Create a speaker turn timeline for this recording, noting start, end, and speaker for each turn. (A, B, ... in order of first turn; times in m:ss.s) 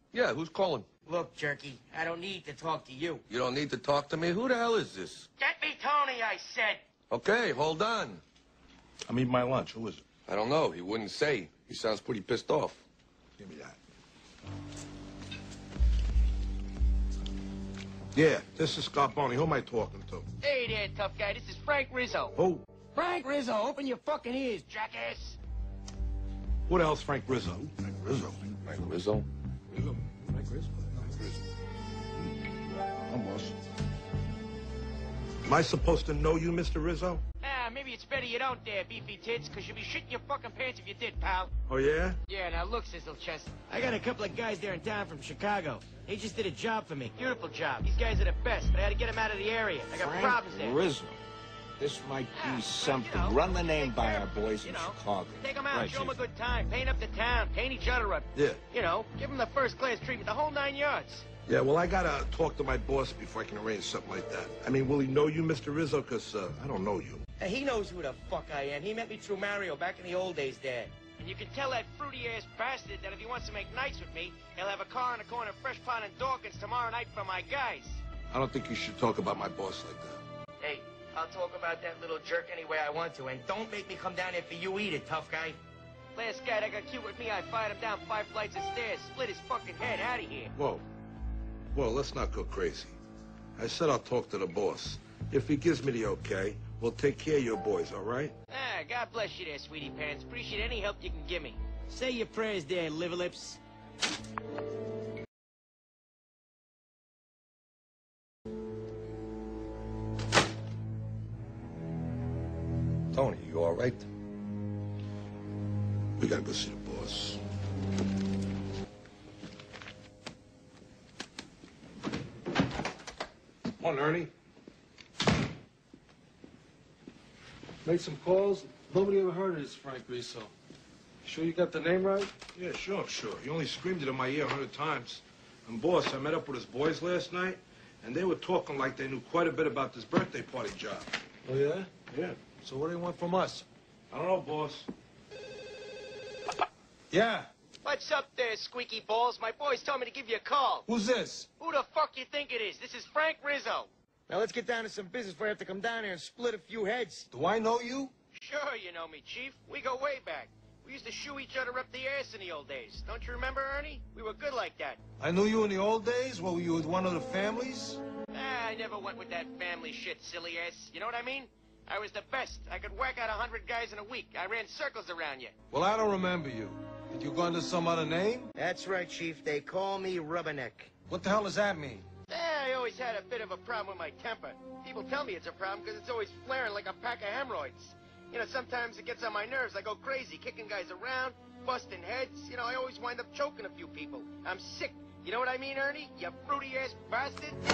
0:00.1-0:00.9 A
0:01.0-0:03.2 B
0:03.3-0:05.2 A
0:05.4-0:06.8 B
0:07.1-0:08.2 A
0:09.1-0:10.0 C
0:10.3-0:12.8 A
0:13.4-0:13.8 C
0:18.1-0:20.2 C
0:20.4-0:22.3 B
0:22.4-0:22.6 C
0:22.9-0:25.4 B
0:26.7-0:28.6 C
0:28.6-0:29.2 A
0:29.7-0:31.4 C
0:33.1-0:33.6 C
0:35.4-0:37.2 C
0:37.4-0:41.5 B
0:41.7-0:42.2 C
0:42.3-0:50.8 B
0:49.9-0:51.2 D
0:51.8-0:56.1 D
0:52.3-1:01.2 B
0:58.3-0:58.6 C
1:01.5-1:07.2 C
1:07.4-1:18.0 B
1:18.3-1:20.2 C
1:20.6-1:25.6 B
1:26.1-1:30.5 B
1:30.6-1:30.8 C
1:31.7-1:33.0 C
1:33.6-1:38.3 C
1:38.5-1:43.6 B
1:53.1-1:54.0 A
1:56.2-1:57.4 C
2:03.8-2:04.3 C
2:03.9-2:04.2 E
2:07.8-2:10.5 E
2:11.2-2:12.3 E
2:12.5-2:21.1 C
2:21.4-2:21.9 E
2:22.1-2:22.4 C
2:22.6-2:23.6 E
2:24.1-2:24.9 C
2:27.1-2:27.5 E
2:27.8-2:30.8 B
2:30.9-2:31.5 E
2:31.6-2:37.3 B
2:37.3-2:38.1 E
2:38.3-2:45.0 B
2:45.2-2:48.0 E
2:48.3-2:55.5 B
2:55.7-2:58.5 E
2:58.6-3:00.9 B
3:01.1-3:02.0 E
3:02.3-3:17.6 B